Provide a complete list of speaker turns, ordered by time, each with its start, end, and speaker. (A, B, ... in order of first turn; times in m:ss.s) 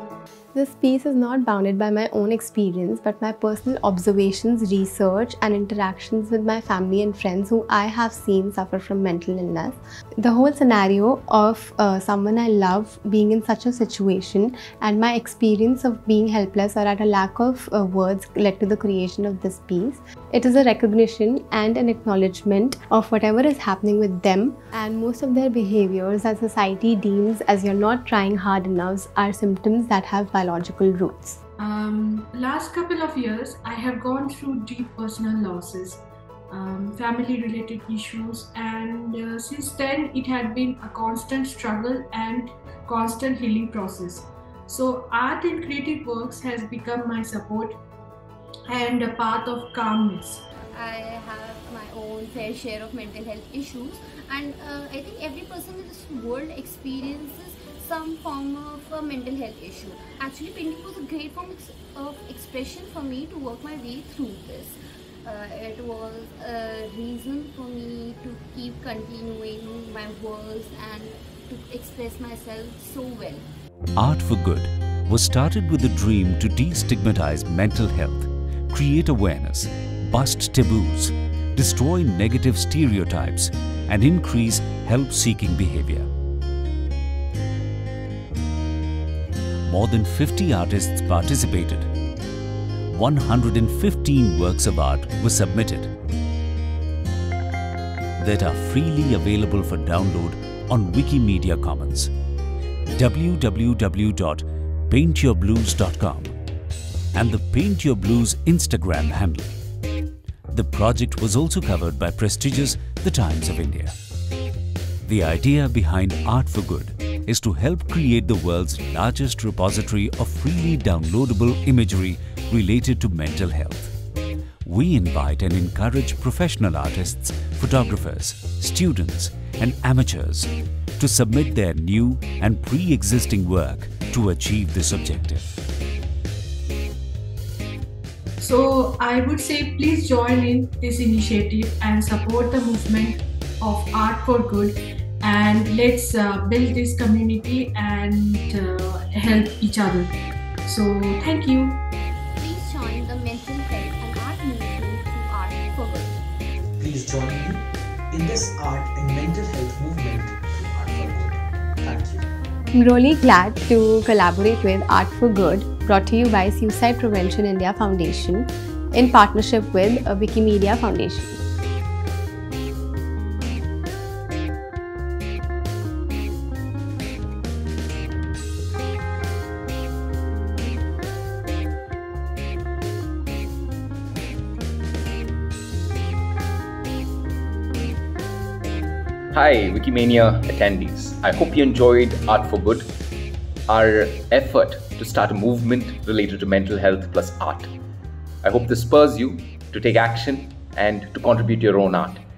0:00.5-0:31.4 A
0:31.6-0:47.8 B
0:48.7-0:50.4 B
0:50.7-1:13.5 C
1:14.0-1:26.1 D
1:29.6-1:31.9 D
1:32.9-1:35.9 D
1:38.2-1:42.1 D
1:42.9-1:46.3 D
1:47.1-1:49.6 D
1:50.5-1:54.0 D
1:55.0-2:03.9 D
2:04.6-2:15.5 D
2:18.4-2:30.1 B
2:30.6-2:31.8 B
2:32.4-2:36.2 C
2:36.8-2:42.3 E
2:42.7-2:51.4 A
3:09.3-3:12.9 F
3:13.7-3:17.7 F
3:18.4-3:22.2 F